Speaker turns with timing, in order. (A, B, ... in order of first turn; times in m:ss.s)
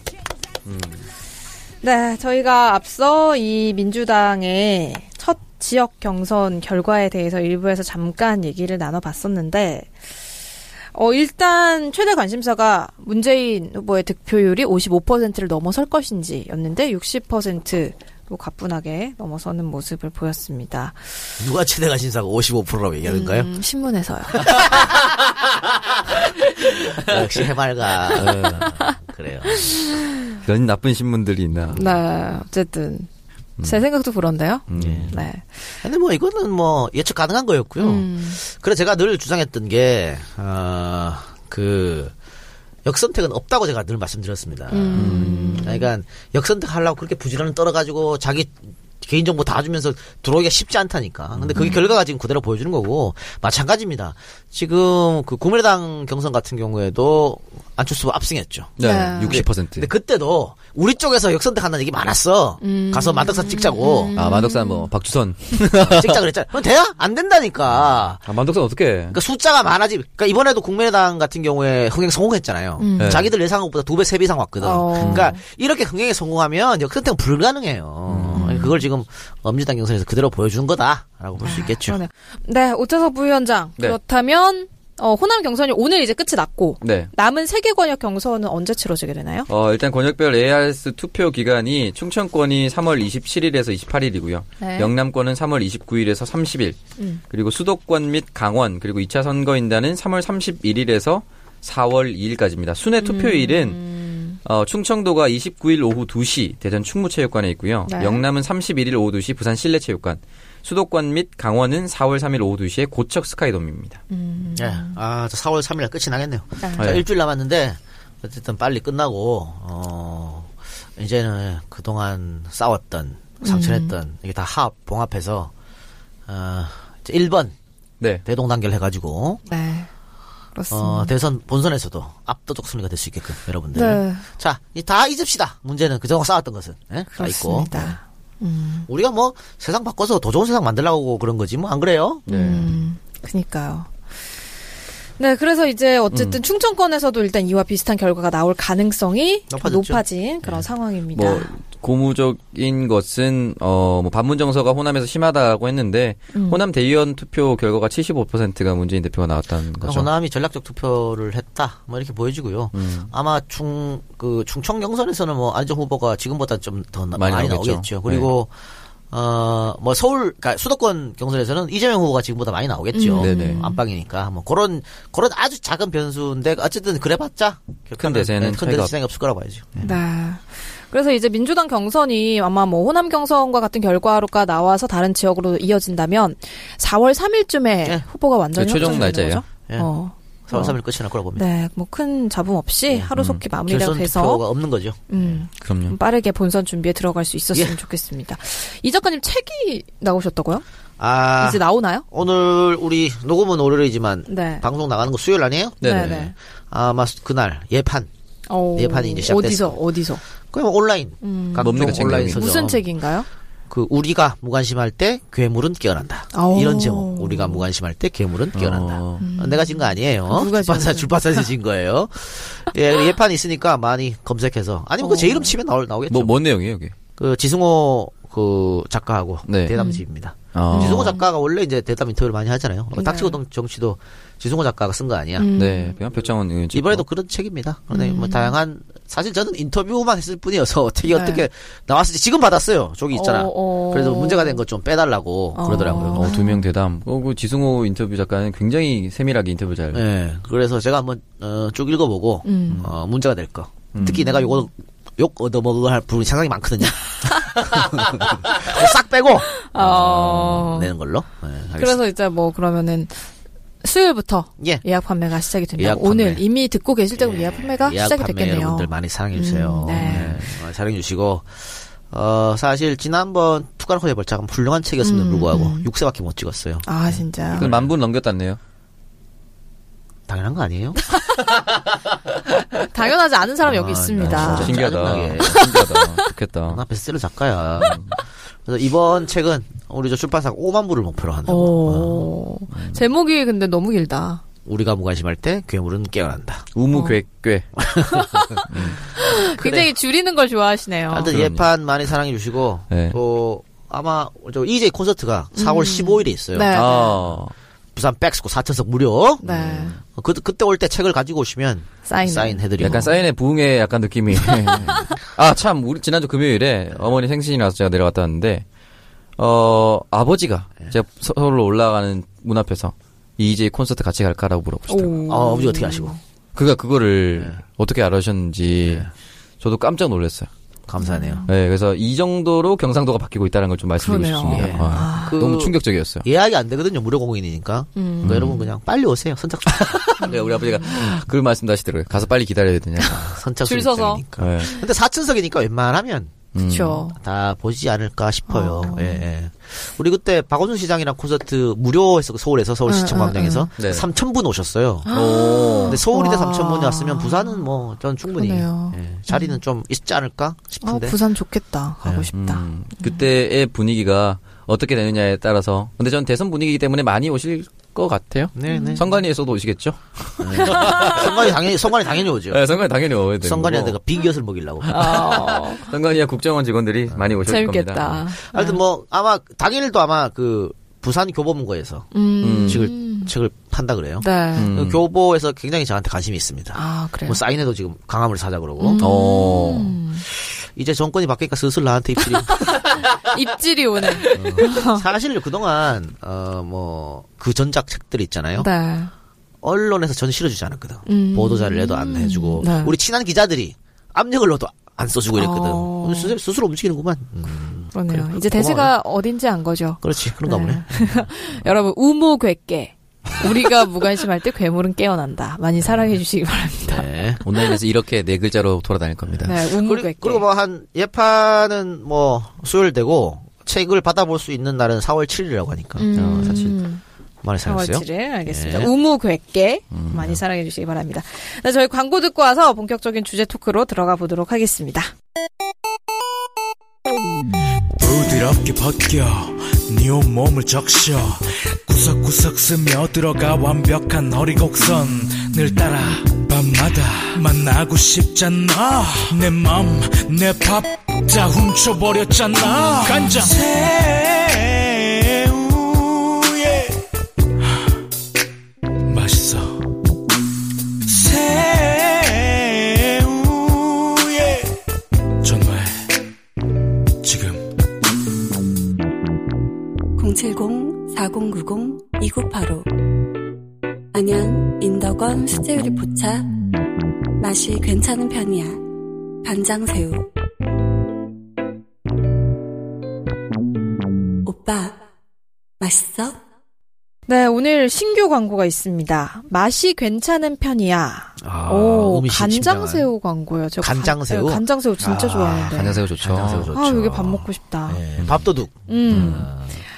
0:00.6-0:01.0 A
0:01.8-0:09.9 B
0:10.9-0:21.0 B
0:21.4-0:23.5 C
0:23.0-0:24.6 B
0:24.3-0:25.2 C
0:26.1-0:29.8 C
0:28.1-0:28.7 A
0:29.7-0:30.0 B
0:30.4-0:31.9 A
0:31.7-0:33.1 B
0:33.6-0:35.4 B
0:34.7-0:35.1 A
0:34.8-0:35.1 C
0:35.8-0:42.1 C
0:37.8-0:38.4 B
0:42.8-1:04.1 C
0:44.7-0:45.9 B
0:44.9-0:45.7 A
0:51.4-0:51.7 A
0:58.8-0:59.9 A
0:58.8-0:59.4 B
1:02.6-1:04.9 B
1:04.2-1:06.2 A
1:05.7-1:08.2 C
1:08.2-1:09.2 A
1:09.1-1:22.0 C
1:12.8-1:13.2 B
1:13.0-1:13.3 A
1:14.6-1:15.4 B
1:15.0-1:15.3 A
1:18.1-1:18.6 A
1:18.4-1:18.8 B
1:21.4-1:29.5 B
1:26.8-1:27.1 A
1:29.5-1:36.8 A
1:34.6-1:34.9 B
1:37.3-1:43.8 A
1:43.0-1:44.4 B
1:44.4-1:54.0 A
1:47.8-1:48.2 B
1:54.1-1:55.0 B
1:54.5-2:05.5 C
1:56.6-1:56.9 B
1:56.8-1:57.0 A
2:03.4-2:03.9 B
2:06.3-2:07.5 C
2:08.2-2:09.4 C
2:09.5-2:09.9 B
2:10.5-2:11.1 B
2:10.7-2:18.0 C
2:13.7-2:14.2 B
2:17.1-2:18.9 B
2:18.9-2:22.3 C
2:22.3-2:23.9 B
2:22.3-2:22.7 A
2:25.2-2:31.5 B
2:26.1-2:26.4 A
2:29.5-2:30.0 C
2:31.1-2:40.1 A
2:36.3-2:36.6 B
2:39.8-2:48.5 C
2:42.7-2:43.1 A
2:47.1-2:48.3 A
2:49.1-2:59.9 C
2:52.9-2:53.8 B
2:53.2-2:53.6 A
2:58.0-2:58.9 A
2:59.8-3:10.8 B
3:08.5-3:09.4 A
3:10.5-3:11.4 C
3:11.3-3:14.4 B
3:12.9-3:15.4 C
3:13.2-3:13.4 A
3:15.1-3:20.6 B
3:15.6-3:16.0 A
3:21.0-3:28.1 C
3:21.4-3:22.0 B
3:24.3-3:24.6 B
3:25.8-3:26.2 A
3:25.8-3:26.3 B
3:28.5-3:30.2 B
3:28.7-3:29.8 C
3:30.5-3:32.9 C
3:31.2-3:33.3 B
3:31.6-3:32.4 A
3:33.7-3:46.3 C
3:36.3-3:37.6 B
3:38.5-3:39.2 A
3:39.2-3:41.5 B
3:45.0-3:45.5 B
3:46.1-3:47.0 A
3:47.2-3:55.5 C
3:49.5-3:49.7 A
3:49.7-3:50.0 B
3:50.5-3:51.1 A
3:50.7-3:51.2 B
3:53.0-3:53.4 B
3:55.4-3:56.0 B
3:55.5-3:57.0 A
3:56.7-4:06.3 C
3:57.9-3:58.5 B
4:01.1-4:01.4 B
4:03.1-4:04.6 B
4:05.5-4:06.6 B
4:05.8-4:10.0 A
4:09.9-4:22.0 C
4:12.4-4:12.9 B
4:13.9-4:14.2 A
4:14.0-4:14.6 B
4:19.5-4:20.9 B
4:21.7-4:23.2 B
4:23.8-4:30.6 B
4:24.6-4:24.8 C
4:25.8-4:26.4 C
4:27.2-4:37.9 C
4:29.9-4:30.4 A
4:35.0-4:35.9 B
4:36.8-4:37.7 B
4:37.5-4:38.6 A
4:40.3-4:41.0 C
4:42.9-4:44.8 B
4:43.6-4:45.8 C
4:44.2-4:46.8 A
4:45.5-4:46.2 B
4:46.7-4:48.0 C
4:48.6-4:52.2 C
4:51.5-4:54.4 B
4:52.7-4:53.0 A
4:54.6-4:56.7 C
4:56.7-4:57.7 A
4:56.9-4:57.2 B
4:57.8-4:58.3 C
4:58.2-5:01.3 B
4:58.7-4:59.0 A
4:59.6-4:59.9 C
5:01.1-5:07.3 C
5:01.3-5:01.7 A
5:02.9-5:03.2 A
5:05.5-5:07.2 B
5:06.7-5:07.5 A
5:08.0-5:09.5 C
5:09.4-5:09.9 B
5:09.4-5:10.0 A
5:10.0-5:13.1 C
5:12.0-5:13.2 B
5:12.8-5:18.6 A
5:19.4-5:25.2 A
5:24.9-5:26.2 B
5:25.3-5:26.1 C
5:26.5-5:29.1 A
5:28.8-5:29.1 C
5:29.6-5:30.5 A
5:30.9-5:31.4 C
5:31.0-5:31.5 B
5:31.5-5:36.2 A
5:34.0-5:35.4 B
5:34.5-5:40.1 C
5:38.0-5:38.6 B
5:38.2-5:38.6 A
5:39.6-5:43.3 A
5:40.2-5:40.9 B
5:43.0-5:46.5 C
5:43.6-5:44.8 B
5:44.4-5:44.7 A
5:46.5-5:47.0 A
5:46.6-5:47.2 B
5:47.1-5:55.1 C
5:48.5-5:49.2 B
5:52.8-5:53.7 B
5:53.8-5:54.0 A
5:55.0-5:57.6 B
5:55.1-5:56.0 A
5:55.8-6:01.2 C
5:58.2-5:59.6 B
6:00.8-6:03.2 B
6:02.3-6:11.5 A
6:08.5-6:09.1 C
6:08.7-6:09.0 B
6:10.4-6:12.6 C
6:10.6-6:11.2 B
6:12.5-6:14.0 A
6:13.4-6:15.3 C
6:14.9-6:18.3 A
6:14.9-6:15.9 B
6:17.1-6:17.5 C
6:17.5-6:18.8 B
6:18.5-6:22.1 C
6:22.1-6:23.3 B
6:22.4-6:22.9 A
6:22.7-6:29.5 C
6:24.2-6:24.7 B
6:24.6-6:25.0 A
6:26.7-6:27.4 B
6:28.8-6:30.2 B
6:29.0-6:30.0 A
6:30.3-6:32.8 C
6:32.2-6:35.0 B
6:34.2-6:38.7 C
6:34.3-6:34.6 A
6:38.6-6:39.1 B
6:39.6-6:48.9 C
6:41.0-6:42.9 B
6:45.3-6:46.4 B
6:47.9-6:57.4 B
6:50.0-6:51.3 C
6:55.8-6:56.2 C
6:56.8-6:57.4 C
6:57.4-6:59.5 A
6:59.2-7:06.7 C
6:59.4-7:00.4 B
7:06.0-7:07.0 B
7:06.1-7:06.8 A
7:07.4-7:08.9 C
7:07.6-7:15.1 B
7:09.9-7:10.4 A
7:18.0-7:37.0 D
7:39.1-7:39.8 D
7:41.1-7:44.7 D
7:45.4-7:46.0 D
7:47.2-7:47.7 D
7:50.2-7:52.9 E
7:54.1-7:56.6 E
7:57.4-7:58.9 E
7:59.4-8:00.3 E
8:04.4-8:05.0 E
8:05.8-8:06.4 E
8:07.3-8:16.0 B
8:11.4-8:13.1 C
8:13.8-8:19.8 C
8:15.7-8:16.7 A
8:16.7-8:18.0 B
8:18.9-8:19.5 B
8:19.1-8:19.4 A